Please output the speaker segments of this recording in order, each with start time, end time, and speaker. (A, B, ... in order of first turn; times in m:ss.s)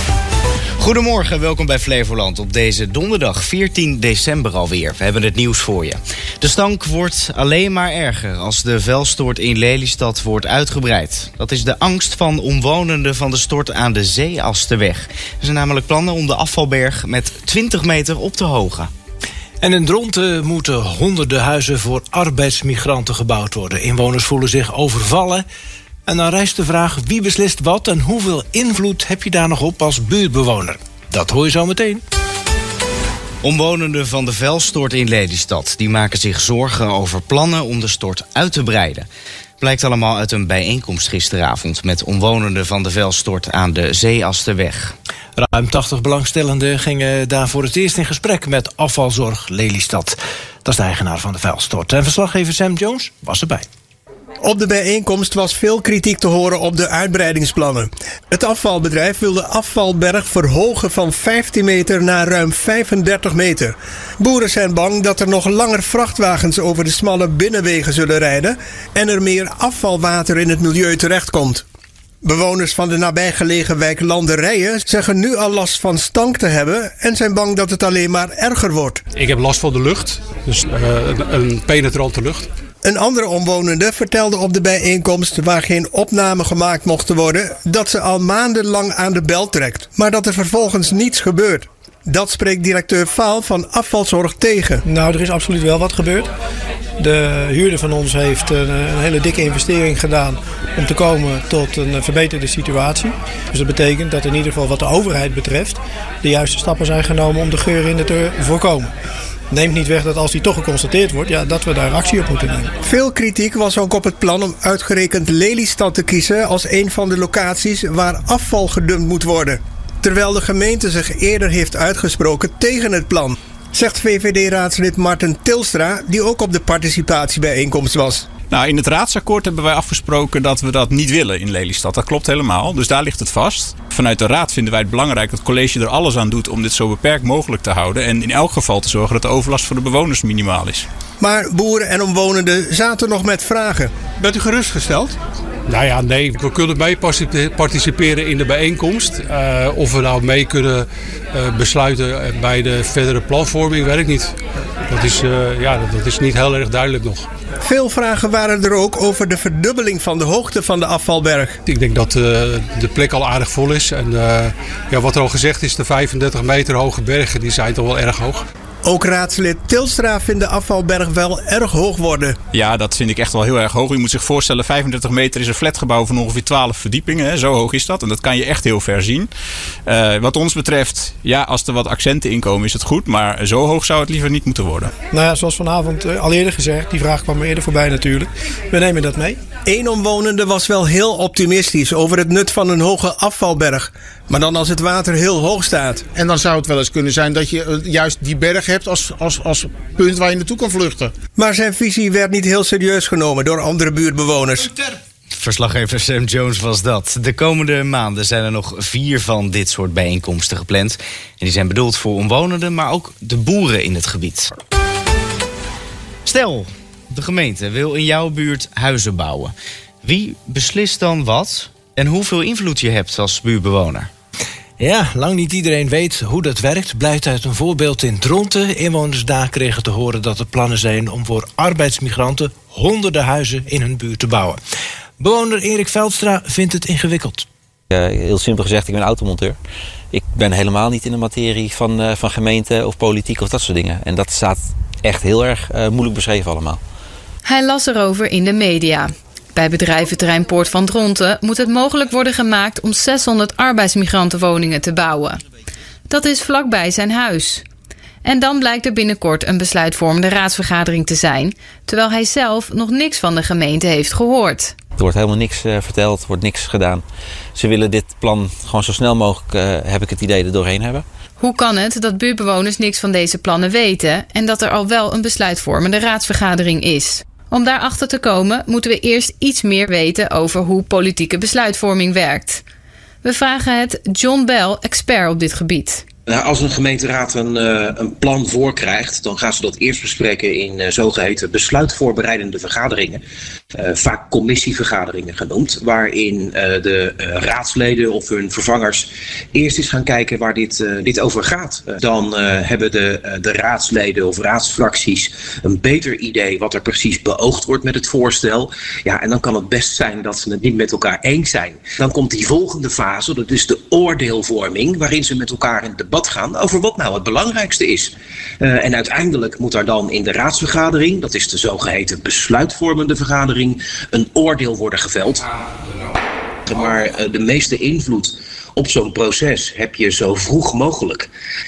0:00.8-0:18.9 A
0:19.6-0:25.4 B
0:26.1-0:32.0 B
0:33.4-0:39.1 A
0:39.6-0:45.0 A
0:45.4-0:53.7 B
0:54.4-1:11.6 C
1:12.2-1:19.0 C
1:19.2-1:22.5 D
1:22.8-1:34.8 C
1:34.8-1:36.3 E
1:37.0-1:48.9 E
1:49.5-1:52.7 E
1:52.9-2:08.3 C
2:08.5-2:20.9 F
2:21.2-2:25.1 C
2:25.7-2:34.4 D
2:34.9-2:37.3 D
2:37.7-2:41.6 C
2:41.7-2:48.4 D
2:48.8-2:52.4 C
2:52.5-2:59.3 F
2:59.9-3:04.9 F
3:05.1-3:09.4 E
3:09.7-3:16.1 C
3:16.1-3:21.2 G
3:21.4-3:24.7 C
3:25.4-3:34.5 A
3:36.3-3:44.1 A
3:44.8-3:54.6 B
3:55.2-3:57.5 B
3:57.9-3:59.6 H
4:00.1-4:06.8 H
4:07.4-4:15.4 I
4:16.1-4:17.6 I
4:18.2-4:24.8 I
4:25.0-4:27.0 H
4:27.6-4:31.0 H
4:31.4-4:42.6 I
4:43.2-4:46.0 I
4:46.3-4:53.2 J
4:53.7-5:25.5 J
5:26.7-5:31.3 J